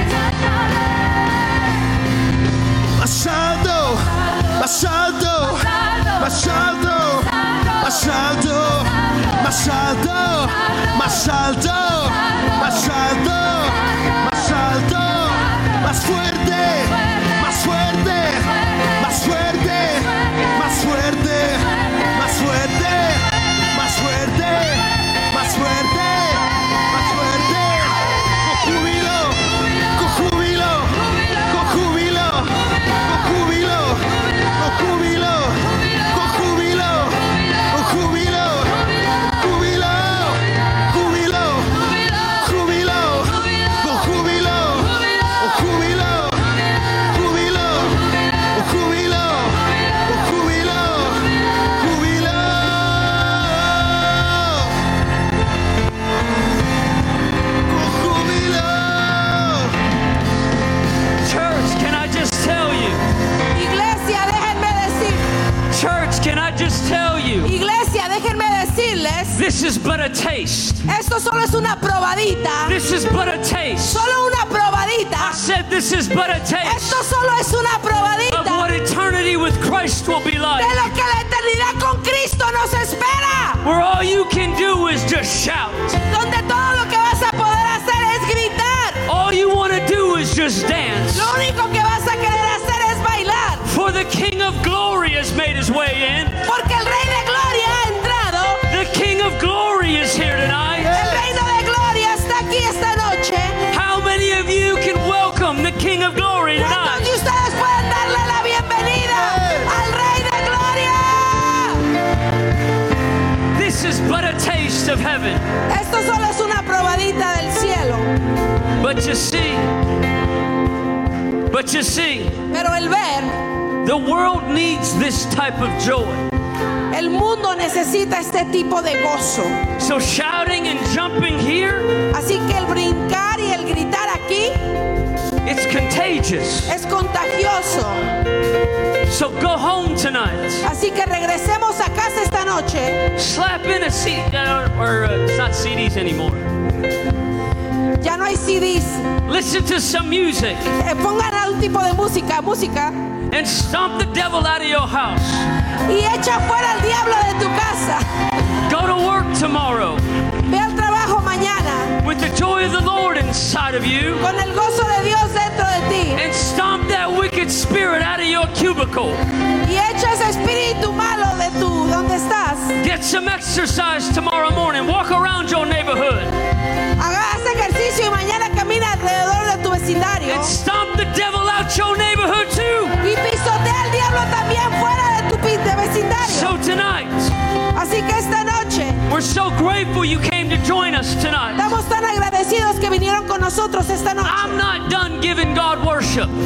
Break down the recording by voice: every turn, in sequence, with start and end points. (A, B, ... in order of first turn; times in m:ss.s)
0:03.0-0:54.7 A
0:57.7-0:59.8 A
1:01.2-1:03.0 B
1:03.5-1:05.3 C
1:05.7-1:07.5 B
1:07.4-1:09.4 C
1:09.4-1:10.9 B
1:10.9-1:12.8 C
1:12.7-1:14.0 B
1:13.8-1:15.4 C
1:15.2-1:17.0 B
1:16.6-1:18.7 C
1:18.3-1:20.7 B
1:20.6-1:23.6 C
1:23.6-1:26.0 B
1:26.0-1:29.0 C
1:29.1-1:31.3 B
1:31.1-1:33.7 C
1:33.6-1:36.4 B
1:36.4-1:38.7 C
1:38.7-1:41.0 B
1:40.8-1:41.3 A
1:40.9-1:43.6 C
1:43.7-1:47.1 B
1:46.6-1:51.9 C
1:49.1-1:49.7 A
1:53.5-1:55.4 B
1:55.7-1:58.2 C
1:58.8-1:59.7 B
2:01.5-2:02.4 B
2:02.5-2:03.4 C
2:03.8-2:06.3 B
2:06.9-2:09.6 C
2:09.8-2:12.0 B
2:12.1-2:14.8 C
2:15.4-2:16.7 B
2:16.7-2:18.1 C
2:19.0-2:20.7 B
2:20.6-2:23.1 C
2:23.2-2:26.5 B
2:28.0-2:29.2 C
2:29.2-2:30.7 B
2:30.7-2:33.1 C
2:33.3-2:35.5 B
2:35.9-2:38.1 C
2:38.7-2:40.0 B
2:40.5-2:42.0 C
2:42.0-2:44.2 B
2:44.2-2:46.2 C
2:46.2-2:49.2 B
2:49.6-2:52.8 C
2:52.8-2:56.3 B
2:57.0-3:00.6 C
3:00.3-3:03.0 B
3:03.0-3:06.6 C
3:06.2-3:07.3 B
3:07.7-3:09.0 C
3:09.1-3:11.7 B
3:11.6-3:14.6 C
3:14.2-3:16.4 B